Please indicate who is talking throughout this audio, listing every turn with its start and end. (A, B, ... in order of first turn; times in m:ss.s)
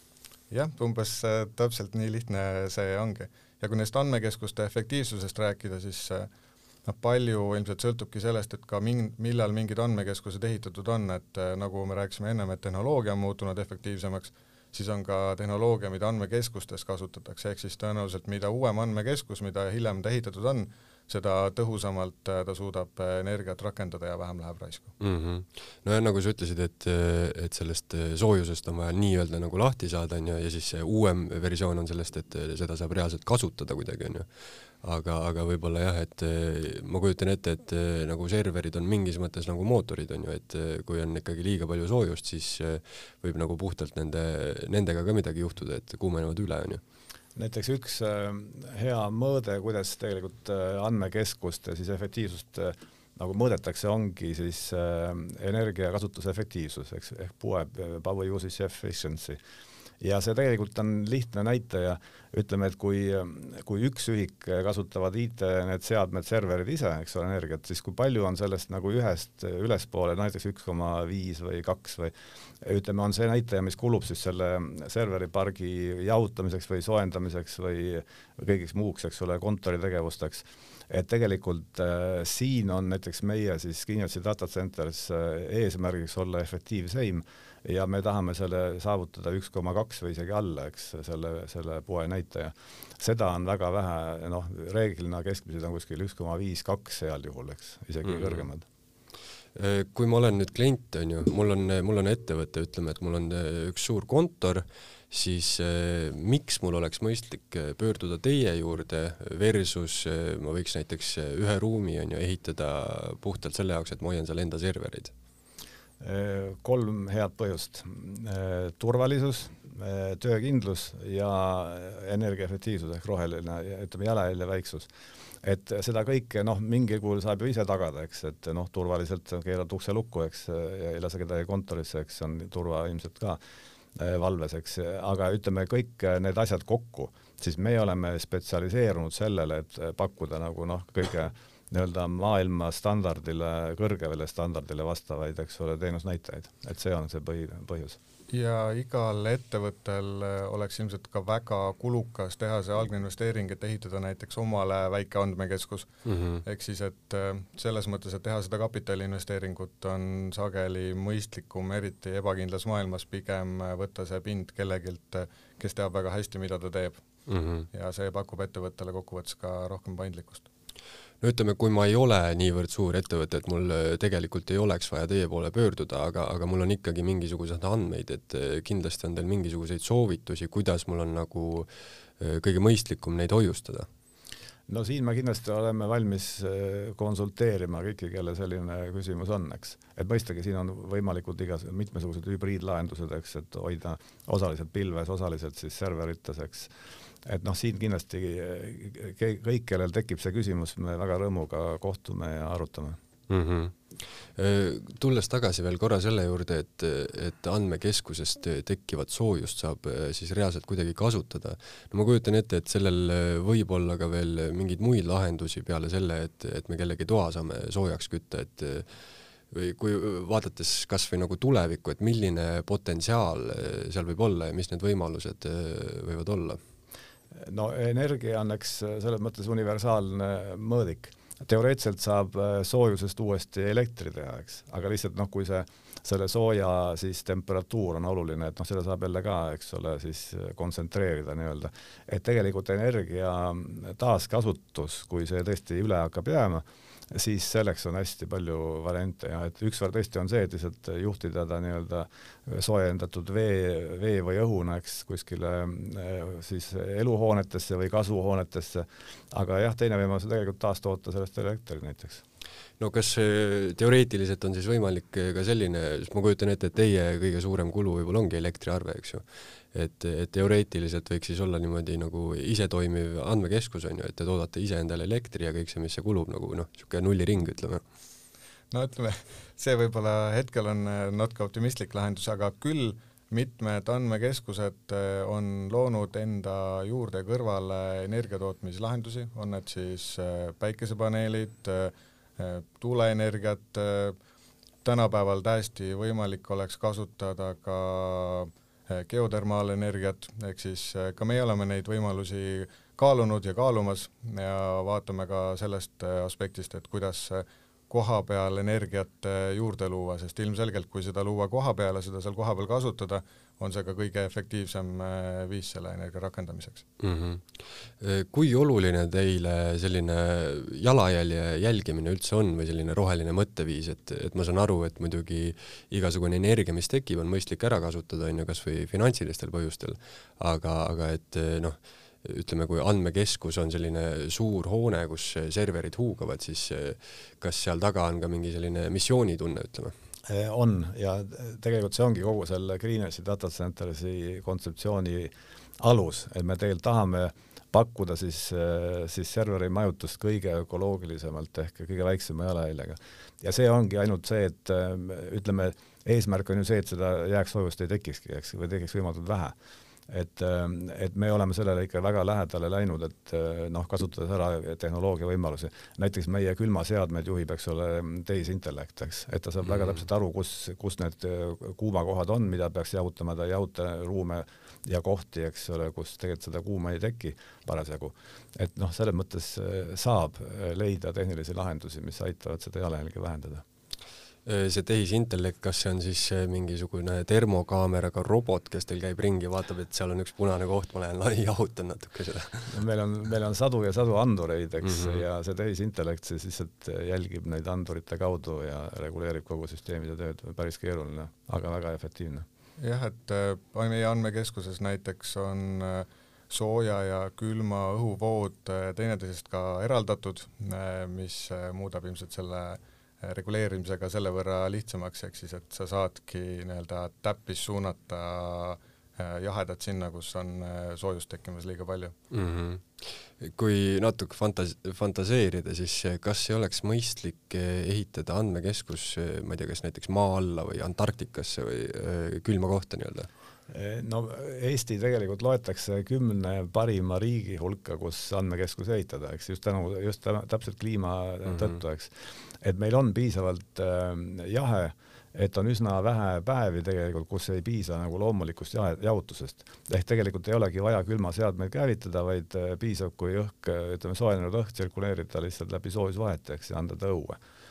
0:00.5-0:06.3 A
0:06.8-0:24.9 A
0:25.0-0:34.2 B
0:34.8-0:46.8 B
0:47.4-0:59.4 C
1:00.0-1:38.6 C
1:38.0-1:38.4 B
1:39.5-1:55.1 B
1:56.0-2:04.9 C
2:05.4-2:13.4 C
2:14.0-2:28.0 C
2:28.3-2:35.9 A
2:36.0-2:36.4 B
2:36.4-2:47.0 A
2:47.3-2:47.6 B
2:47.7-2:50.4 A
2:51.2-3:01.7 B
3:02.2-3:03.9 B
3:04.7-3:16.7 C
3:17.2-3:23.0 C
3:23.3-3:23.8 B
3:24.4-3:38.9 B
3:39.5-3:46.6 B
3:47.4-4:22.2 C
4:22.8-4:37.8 B
4:38.7-4:54.2 A
4:54.8-5:16.8 A
5:17.0-5:17.4 B
5:18.0-5:39.9 B
5:40.3-5:59.5 C
6:00.1-6:23.6 C
6:24.4-6:32.8 B
6:32.7-6:42.4 C
6:34.8-6:35.2 B
6:42.8-7:02.1 A
7:02.3-7:13.3 B
7:13.7-7:37.4 C